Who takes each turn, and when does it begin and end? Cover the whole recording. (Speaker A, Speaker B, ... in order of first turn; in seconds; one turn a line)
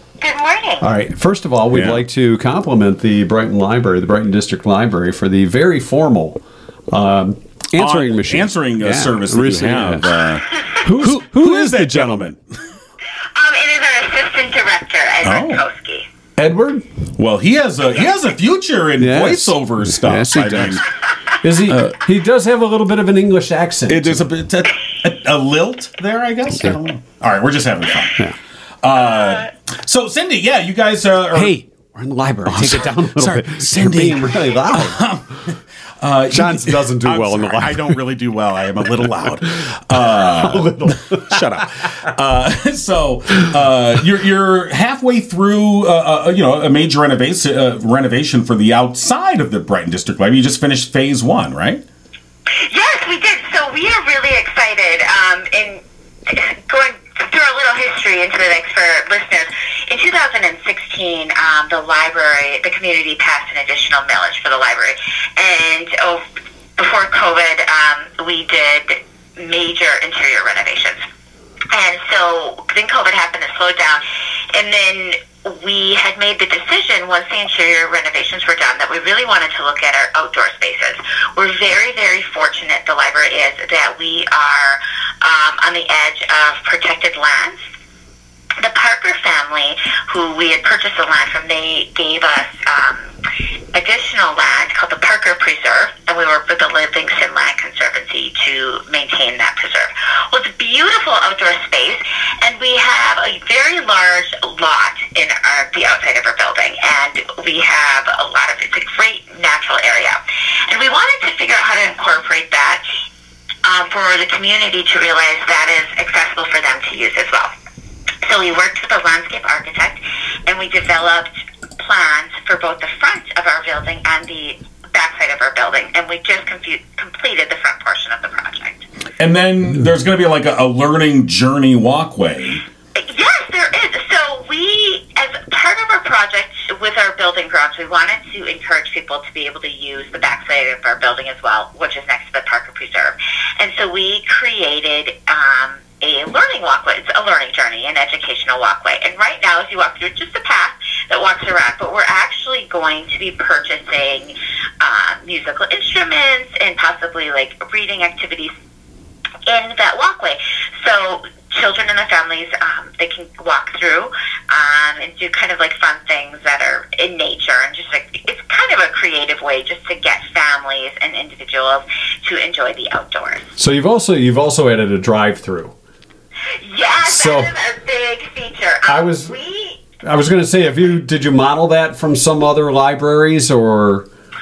Speaker A: 0.2-0.8
Speaker B: 0.8-10.2
Speaker C: 1.7-2.0
Speaker C: 7.8-12.6
Speaker B: 10.8-12.3
Speaker A: 13.3-16.1
Speaker C: 15.2-15.6
Speaker B: 16.4-16.8
Speaker C: 17.2-20.8
Speaker B: 19.0-20.8
Speaker B: 21.4-24.3
Speaker C: 23.9-28.2
Speaker C: 28.8-31.5
Speaker B: 31.3-35.0
Speaker C: 32.5-51.8
Speaker B: 36.3-38.0
Speaker B: 40.1-41.6
Speaker A: 52.6-66.2
Speaker A: 66.8-71.0
Speaker A: 71.7-87.6
Speaker A: 88.6-93.1
Speaker A: 93.7-112.8
Speaker A: 113.6-117.5
Speaker A: 118.2-128.8
Speaker C: 129.2-132.6
Speaker A: 132.9-158.5
Speaker A: 159.5-173.5
Speaker B: 173.6-175.7
Speaker A: 176.6-179.8
Speaker B: 177.0-177.5
Speaker B: 178.9-179.3
Speaker B: 180.0-184.1